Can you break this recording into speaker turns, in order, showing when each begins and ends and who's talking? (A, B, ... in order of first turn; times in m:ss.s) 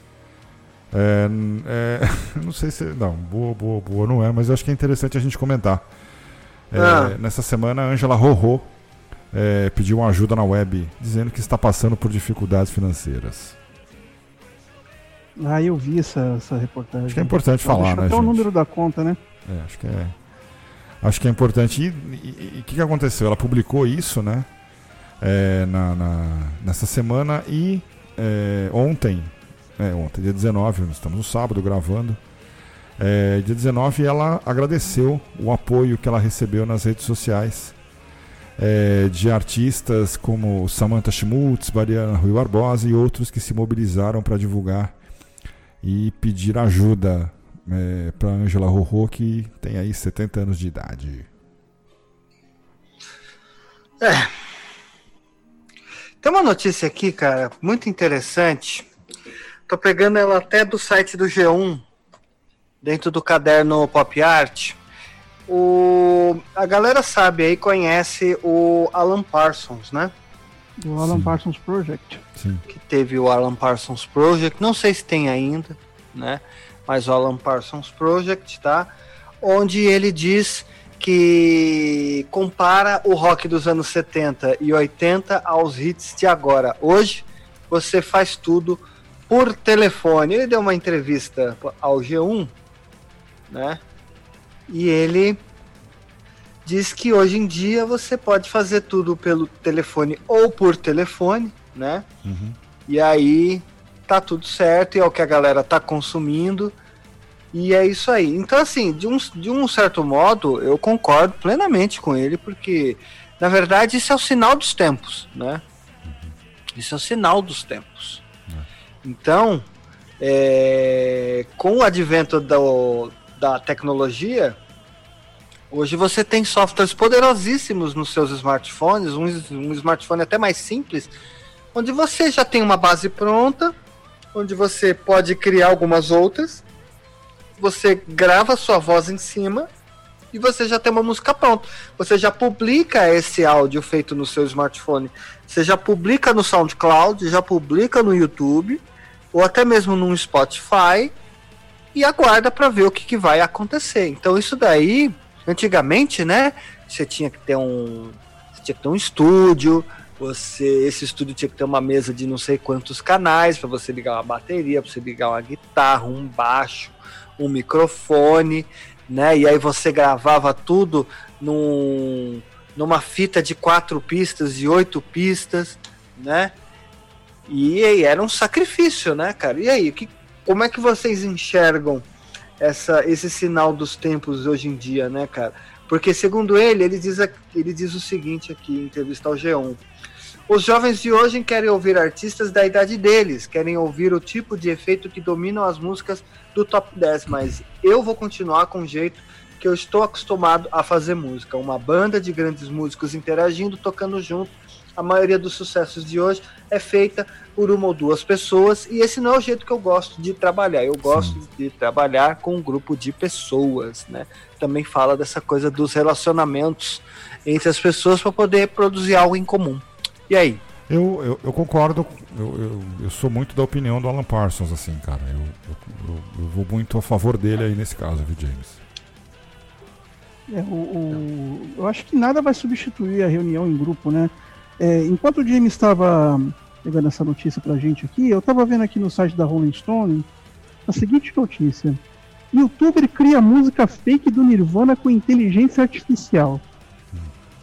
0:00.9-0:05.8 A
0:06.7-0:08.7 A
0:06.7-0:07.2 B
0:09.3-0:13.6 A
0:15.4-0:19.2 C
0:17.1-0:18.5 A
0:19.4-0:20.2 A
0:21.0-0:24.5 A
0:25.2-0:32.2 A
0:33.0-0:37.8 A
0:38.6-0:44.9 A
0:45.8-0:51.3 A
0:54.0-0:54.3 B
0:56.2-0:58.9 B
0:59.7-1:01.8 B
1:02.8-1:04.8 B
1:05.5-1:10.1 B
1:10.8-1:12.2 C
1:11.0-1:11.4 A
1:12.4-1:12.6 A
1:12.7-1:18.9 B
1:19.4-1:32.5 B
1:33.5-1:33.8 B
1:34.7-1:35.4 B
1:36.6-1:42.0 B
1:42.2-1:42.6 A
1:42.9-1:46.7 B
1:47.5-1:55.6 B
1:56.1-1:56.3 A
1:56.7-1:58.2 B
1:59.0-1:59.6 B
2:00.2-2:04.6 B
2:05.7-2:11.1 B
2:11.7-2:13.7 B
2:14.3-2:16.6 B
2:17.6-2:19.7 B
2:20.3-2:28.8 B
2:29.3-2:31.1 B
2:31.9-2:56.5 B
2:57.5-3:02.0 B
3:02.6-3:09.8 B
3:10.5-3:40.6 B
3:31.0-3:31.4 A
3:40.9-3:48.8 A
3:50.5-4:00.3 C
4:00.9-4:02.0 C
4:02.5-4:06.6 C